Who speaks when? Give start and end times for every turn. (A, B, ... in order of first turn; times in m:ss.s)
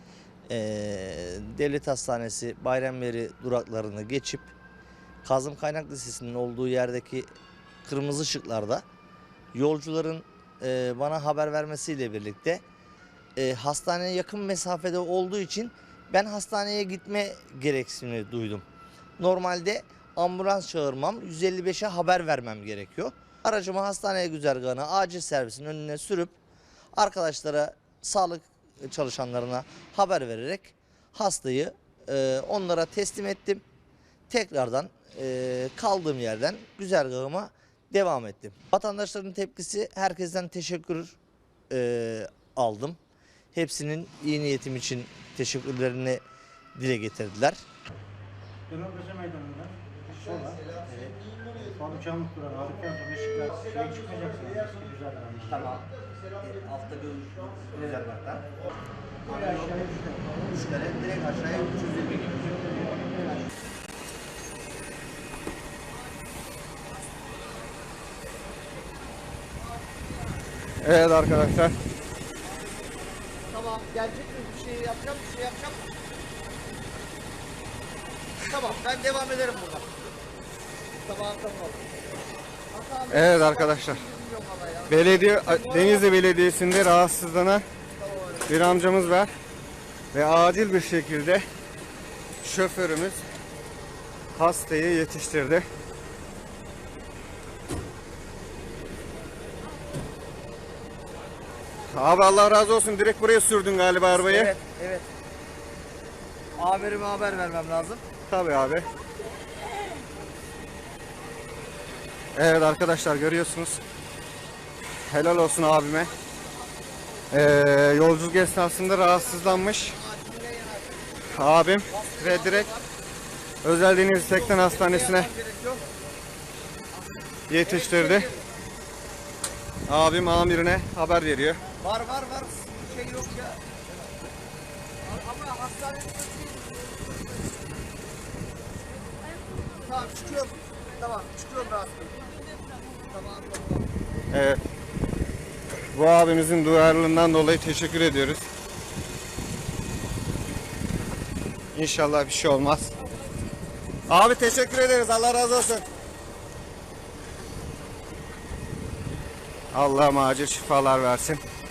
0:00.5-0:04.5 A
0:05.2-0:07.3 A
0:07.8-0:08.8 A
0:09.5-0:12.6 A
0:13.4-0:18.6 A
0:19.2-0:26.4 A
0:26.9-0:33.6 A
0:34.3-0:41.2 A
0:41.7-0:43.0 A
0:43.5-0:46.2 A
0:46.8-0:47.6 A
0:48.7-0:55.8 B
0:50.1-0:52.0 A
0:53.3-0:58.5 A
0:59.2-1:03.3 A
0:59.3-1:00.5 B
1:01.6-1:03.4 B
1:10.8-1:11.7 C
1:13.5-1:15.8 A
1:18.4-1:19.9 A
1:21.0-1:21.8 A
1:22.7-1:26.1 A
1:23.1-1:24.0 C
1:24.9-1:27.6 C
1:28.0-1:28.6 A
1:28.5-1:29.3 C
1:30.1-1:31.4 C
1:32.4-1:33.2 C
1:34.3-1:35.6 C
1:41.9-1:44.5 C
1:44.1-1:45.1 A
1:46.6-1:48.0 A
1:48.3-1:48.9 C
1:52.3-1:53.8 C
1:55.1-1:56.1 C
1:57.3-2:00.0 C
1:59.0-2:01.2 A
2:01.3-2:02.7 C
2:01.9-2:02.9 A
2:03.6-2:05.3 C
2:04.1-2:05.9 A
2:07.5-2:08.3 C
2:07.6-2:08.4 A
2:09.9-2:11.6 C
2:11.8-2:13.8 A
2:15.0-2:17.5 A
2:19.8-2:22.3 A
2:23.1-2:23.9 A
2:24.3-2:24.6 C
2:25.9-2:28.5 C
2:31.7-2:32.9 C
2:34.1-2:35.8 C
2:39.7-2:41.4 C